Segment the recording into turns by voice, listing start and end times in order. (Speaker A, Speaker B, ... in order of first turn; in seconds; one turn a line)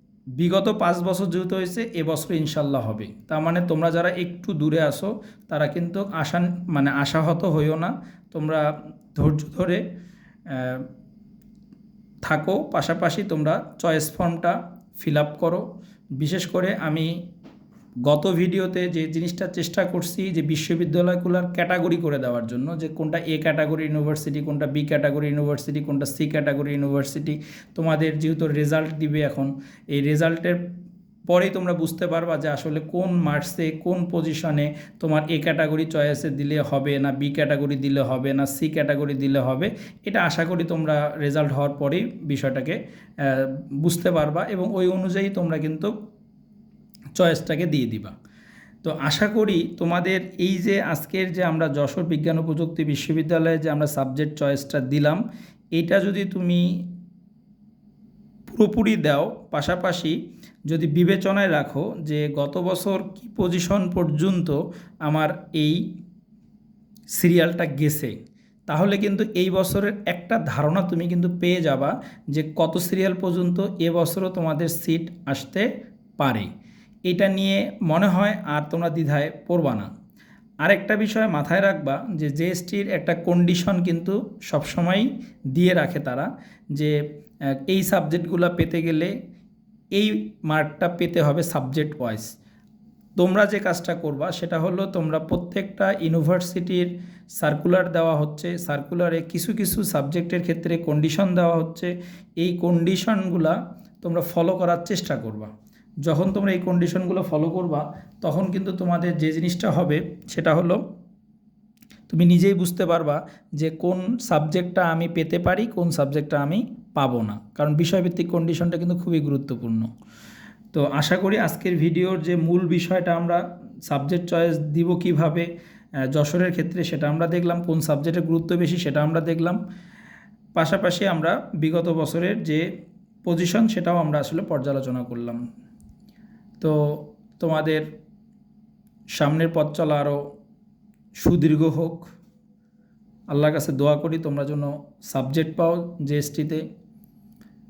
Speaker A: 0.4-9.8
Speaker A: 10.5-10.9
Speaker A: 12.2-15.6
Speaker A: 16.2-17.1
Speaker A: 18.1-30.6
Speaker A: 31.3-45.9
Speaker A: 47.2-48.1
Speaker A: 48.8-55.2
Speaker A: 55.7-56.8
Speaker A: 58.5-60.1
Speaker A: 60.7-65.8
Speaker A: 67.1-68.1
Speaker A: 68.7-75.7
Speaker A: 76.2-76.5
Speaker A: 77.1-79.9
Speaker A: 80.6-86.9
Speaker A: 87.7-89.1
Speaker A: 89.9-92.3
Speaker A: 93.2-105.5
Speaker A: 106.0-110.8
Speaker A: 112.1-119.9
Speaker A: 120.7-125.5
Speaker A: 126.1-129.6
Speaker A: 130.5-132.6
Speaker A: 133.2-135.4
Speaker A: 136.6-137.8
Speaker A: 139.1-140.2
Speaker A: 141.2-142.1
Speaker A: 143.3-146.6